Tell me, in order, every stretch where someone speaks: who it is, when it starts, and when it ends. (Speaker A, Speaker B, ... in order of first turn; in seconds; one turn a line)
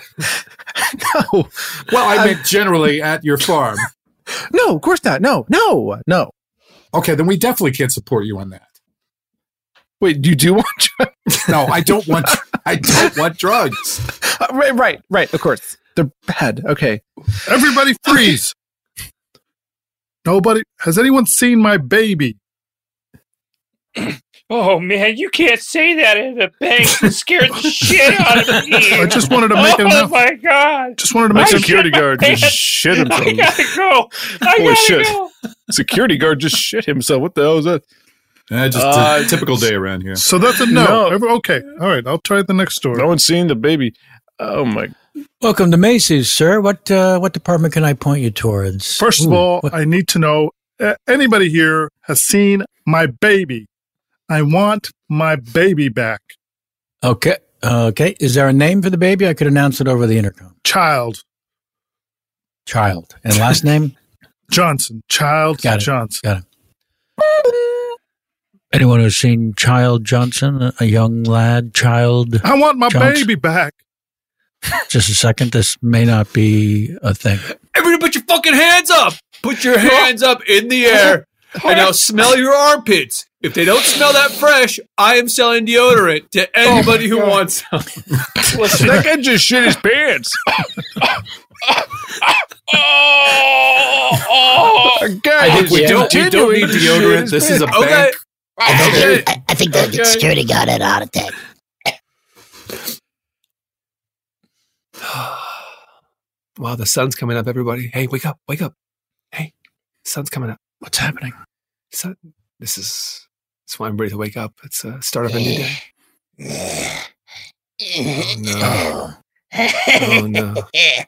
Speaker A: 0.8-2.8
Speaker B: 1.9-3.9
Speaker A: 4.5-6.3
Speaker B: 6.9-8.7
Speaker A: 10.0-12.3
Speaker B: 11.5-14.0
Speaker A: 14.2-17.0
Speaker C: 17.5-18.5
Speaker C: 20.3-22.4
Speaker D: 24.0-35.3
Speaker C: 28.9-30.2
Speaker C: 31.0-32.5
Speaker A: 31.3-33.6
Speaker A: 34.5-37.8
Speaker B: 38.5-40.2
Speaker A: 38.7-39.7
Speaker C: 40.2-43.1
Speaker A: 40.7-41.2
Speaker A: 42.9-44.9
Speaker E: 45.4-49.7
Speaker C: 49.0-53.7
Speaker C: 54.3-56.4
Speaker E: 57.0-60.6
Speaker C: 60.6-61.2
Speaker E: 62.7-63.9
Speaker C: 64.5-66.2
Speaker E: 65.6-66.4
Speaker E: 68.7-73.3
Speaker C: 72.4-73.8
Speaker E: 74.9-77.5
Speaker F: 77.7-87.9
Speaker D: 81.7-81.9
Speaker A: 86.7-87.4
Speaker D: 88.5-89.0
Speaker A: 88.6-90.4
Speaker D: 92.7-95.1
Speaker A: 94.9-97.8
Speaker B: 95.4-98.2
Speaker E: 95.5-96.3
Speaker F: 97.7-100.2
Speaker G: 98.7-101.3
Speaker B: 98.7-99.2
Speaker F: 105.0-105.7
Speaker F: 106.6-108.7
Speaker F: 110.0-110.6
Speaker E: 110.8-111.3
Speaker F: 111.9-115.8
Speaker F: 118.1-118.9
Speaker F: 120.0-120.7